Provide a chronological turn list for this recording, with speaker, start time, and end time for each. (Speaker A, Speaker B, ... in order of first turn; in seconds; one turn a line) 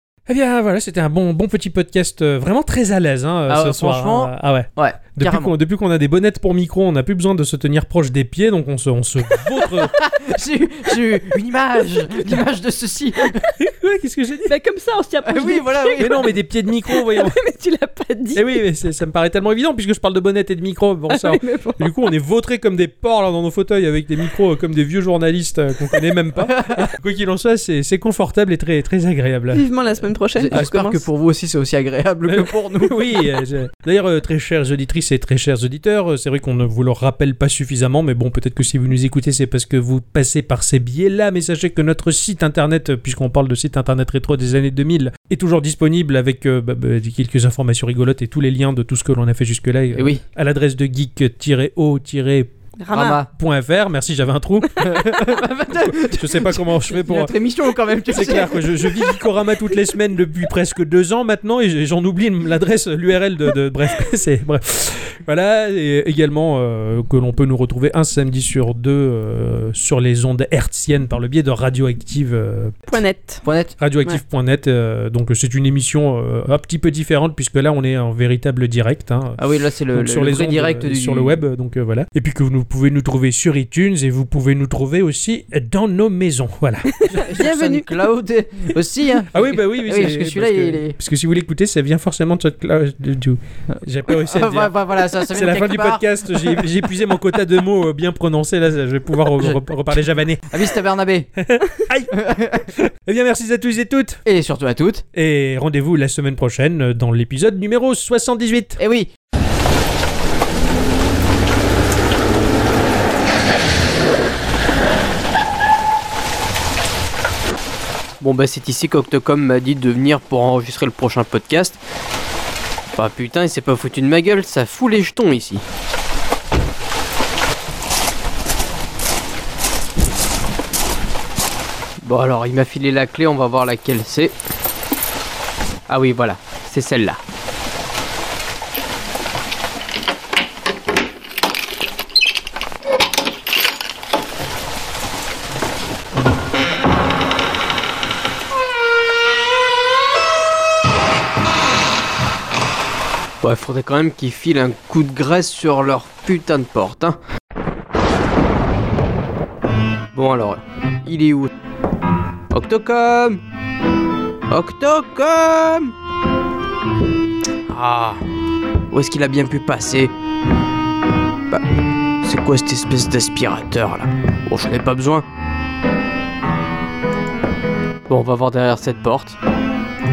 Speaker A: 0.3-9.9
Speaker B: 3.5-5.5
Speaker B: 9.4-13.4
Speaker A: 13.6-14.5
Speaker C: 14.5-16.3
Speaker B: 15.2-16.3
Speaker A: 16.0-17.4
Speaker C: 16.9-18.6
Speaker A: 18.3-29.6
Speaker C: 21.1-21.9
Speaker B: 26.4-26.9
Speaker C: 29.5-31.0
Speaker B: 30.4-33.3
Speaker A: 32.3-52.5
Speaker B: 49.9-50.2
Speaker C: 52.8-53.2
Speaker B: 52.9-53.3
Speaker A: 53.3-57.3
Speaker B: 54.8-59.2
Speaker A: 58.1-72.8
Speaker C: 72.9-73.4
Speaker B: 73.4-73.8
Speaker A: 73.8-87.3
Speaker B: 79.4-81.4
Speaker C: 86.9-87.9
Speaker B: 87.2-91.0
Speaker A: 89.3-100.6
Speaker B: 93.7-96.7
Speaker B: 99.3-99.6
Speaker B: 100.5-101.3
Speaker A: 101.4-102.2
Speaker B: 102.1-102.7
Speaker A: 102.7-104.2
Speaker B: 104.2-105.0
Speaker A: 105.1-108.8
Speaker B: 108.8-109.1
Speaker B: 118.2-121.8
Speaker B: 123.0-125.6
Speaker B: 132.0-134.3
Speaker B: 135.9-137.2
Speaker B: 153.4-157.2
Speaker B: 160.1-161.5
Speaker B: 162.5-163.4
Speaker B: 164.5-165.9
Speaker B: 167.7-168.2
Speaker B: 168.9-170.1
Speaker B: 172.2-175.2
Speaker B: 178.1-179.4